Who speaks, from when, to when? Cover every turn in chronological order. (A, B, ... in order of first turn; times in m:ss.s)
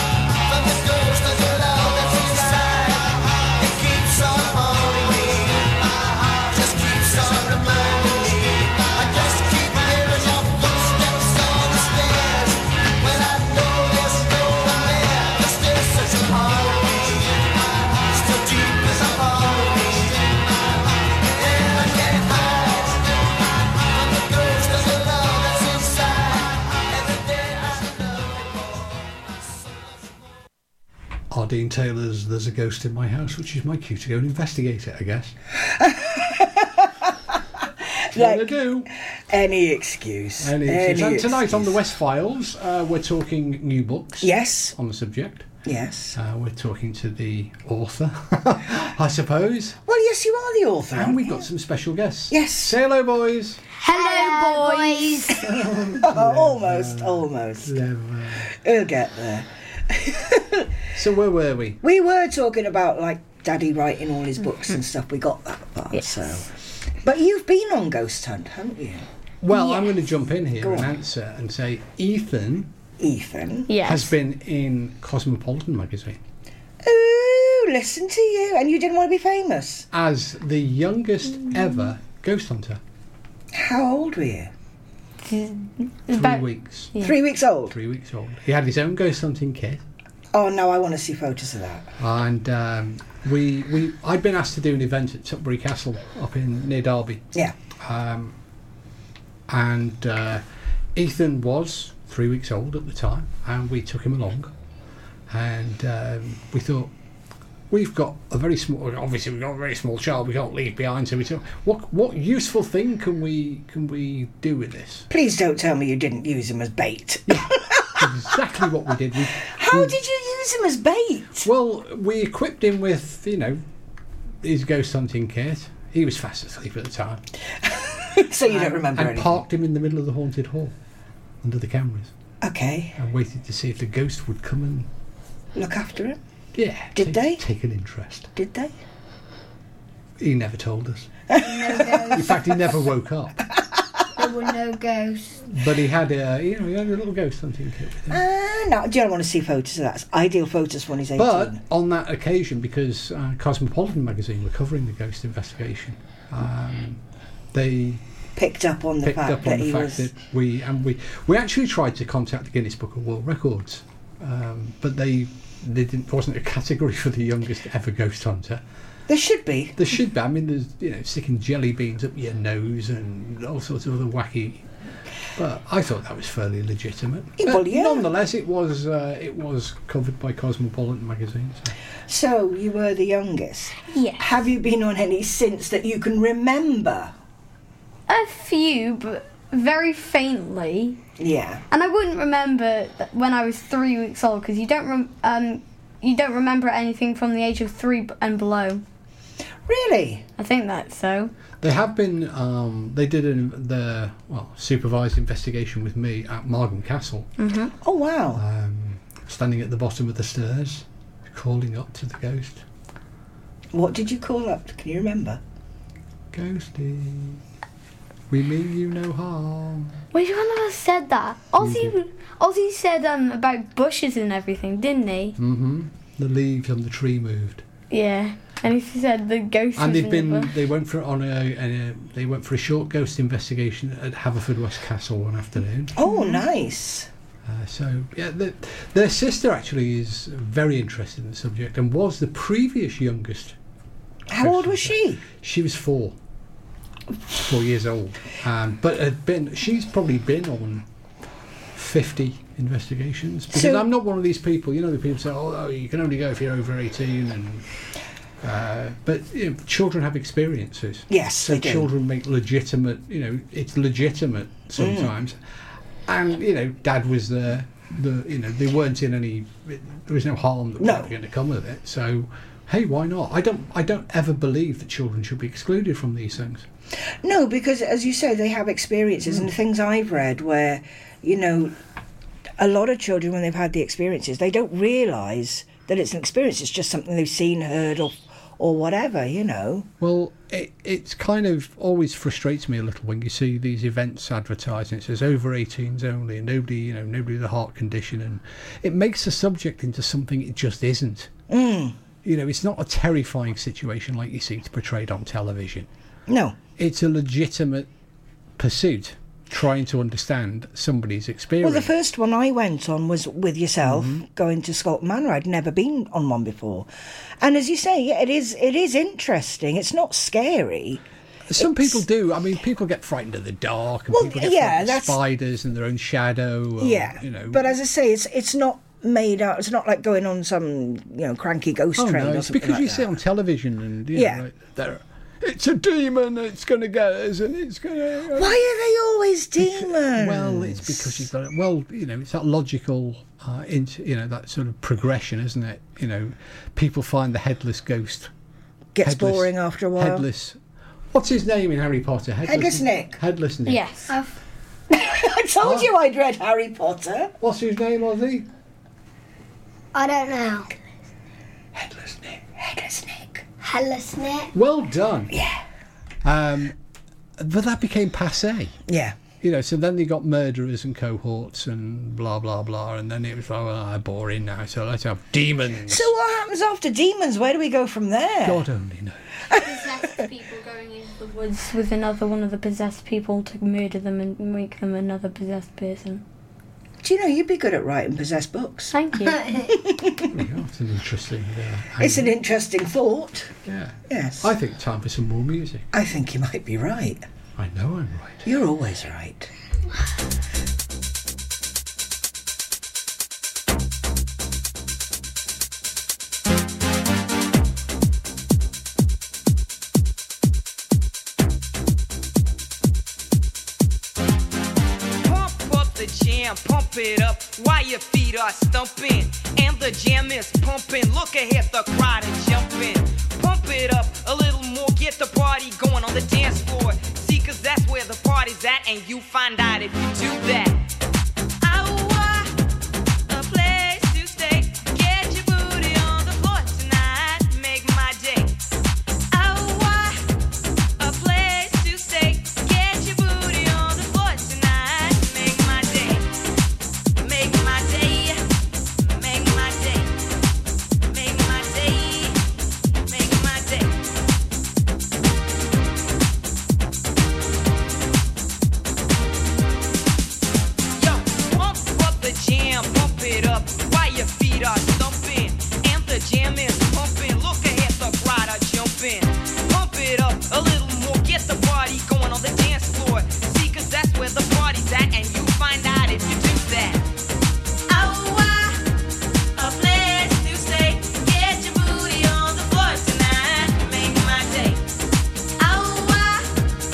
0:00.4-0:30.1 A
0:31.3-0:35.4 B
0:35.6-0:37.4 C
0:38.1-0:38.6 C
0:38.1-0:38.9 B
0:39.3-0:41.8 C
0:40.4-0:45.5 B
0:44.2-0:44.8 C
0:45.6-0:46.2 C
0:46.2-0:49.8 B
0:49.8-0:51.4 C
0:50.9-0:53.6 B
0:52.3-0:52.8 C
0:53.8-0:55.4 D
0:53.8-0:55.4 E
0:55.3-0:58.5 B
0:56.0-0:57.7 C
0:58.5-1:00.7 C
1:00.9-1:01.8 B
1:01.8-1:09.1 C
1:09.4-1:12.7 B
1:09.5-1:09.9 E
1:10.6-1:10.9 C
1:13.0-1:13.7 C
1:13.7-1:14.1 E
1:13.8-1:16.2 B
1:16.8-1:19.9 C
1:19.9-1:22.8 B
1:23.5-1:24.5 C
1:25.2-1:27.2 E
1:26.1-1:26.9 B
1:27.0-1:27.8 C
1:27.7-1:29.8 B
1:30.3-1:31.9 C
1:32.0-1:38.4 B
1:39.5-1:40.4 B
1:41.0-1:44.5 B
1:45.3-1:46.9 B
1:47.7-1:55.1 B
1:55.1-1:58.3 C
1:57.3-2:00.0 B
1:59.3-2:01.5 C
2:01.4-2:03.6 B
2:04.4-2:07.2 B
2:07.6-2:09.4 C
2:08.5-2:10.8 B
2:11.4-2:12.1 B
2:12.4-2:13.0 C
2:13.0-2:14.9 B
2:15.6-2:16.2 C
2:16.5-2:18.3 B
2:17.0-2:17.4 C
2:18.4-2:18.7 C
2:20.2-2:21.1 B
2:21.3-2:22.3 C
2:21.4-2:22.5 D
2:22.1-2:23.4 B
2:24.2-2:25.5 D
2:25.5-2:28.2 B
2:28.1-2:31.6 C
2:31.2-2:37.0 B
2:37.5-2:38.0 B
2:38.4-2:40.1 C
2:39.0-2:48.6 B
2:49.1-2:49.8 C
2:49.8-2:54.7 B
2:55.4-3:01.8 B
2:57.4-2:58.0 C
3:02.1-3:07.1 C
3:03.9-3:04.3 E
3:08.1-3:11.0 E
3:11.2-3:11.6 C
3:11.7-3:18.8 E
3:19.7-3:20.2 C
3:20.4-3:21.3 E
3:21.6-3:27.3 B
3:27.4-3:27.7 E
3:27.8-3:28.4 C
3:28.4-3:32.6 B
3:33.7-3:35.4 C
3:36.3-3:37.4 B
3:38.3-3:40.0 B
3:40.1-3:45.4 E
3:41.6-3:42.0 B
3:45.4-3:47.6 B
3:47.9-3:50.6 E
3:49.8-3:56.0 B
3:56.0-3:57.1 C
3:57.4-4:03.6 B
4:04.3-4:05.2 C
4:04.4-4:06.2 B
4:07.4-4:10.9 B
4:11.7-4:17.7 B
4:13.5-4:13.9 C
4:18.4-4:25.4 B
4:21.1-4:21.9 C
4:24.8-4:25.1 C
4:26.1-4:36.7 B
4:30.8-4:31.1 C
4:37.2-4:41.8 C
4:42.6-4:49.9 C
4:50.0-5:01.3 B
5:01.5-5:02.0 C
5:02.2-5:05.9 B
5:06.3-5:06.6 C
5:06.8-5:07.9 B
5:08.6-5:11.9 B
5:11.6-5:16.9 C
5:13.8-5:14.2 B
5:17.4-5:21.0 C
5:21.5-5:27.8 B
5:21.6-5:22.0 C
5:24.1-5:25.2 C
5:26.8-5:33.1 C
5:32.0-5:38.6 B
5:34.1-5:34.4 C
5:38.3-5:41.3 C
5:39.6-5:48.3 B
5:49.0-5:50.2 C
5:49.0-5:50.6 B
5:51.1-5:53.8 B
5:52.4-5:53.2 C
5:53.7-5:54.1 E
5:54.9-5:57.3 C
5:55.6-5:55.9 B
5:57.4-5:58.5 B
5:59.9-6:00.7 D
6:01.8-6:02.4 B
6:02.6-6:03.4 C
6:03.6-6:04.5 D
6:04.5-6:05.3 B
6:05.3-6:05.6 C
6:06.2-6:06.8 B
6:07.4-6:08.8 B
6:08.9-6:09.2 C
6:09.4-6:16.1 B
6:15.9-6:18.6 C
6:18.4-6:19.2 B
6:19.5-6:20.1 C
6:19.5-6:26.2 E
6:27.0-6:30.3 C
6:28.9-6:29.4 E
6:30.3-6:32.4 B
6:32.0-6:33.5 C
6:33.6-6:35.9 B
6:34.1-6:34.5 C
6:35.9-6:37.2 C
6:37.6-6:38.5 B
6:38.4-6:39.5 C
6:55.2-7:10.8 F
7:11.6-7:12.6 F
7:13.3-7:18.6 F
7:19.3-7:20.2 F
7:21.0-7:26.3 F
7:27.2-7:28.4 F
7:29.0-7:30.1 F
7:31.1-7:32.4 F
7:33.1-7:34.0 F
7:41.0-7:57.1 F
7:57.9-7:58.8 F
7:59.6-8:04.8 F
8:05.6-8:06.5 F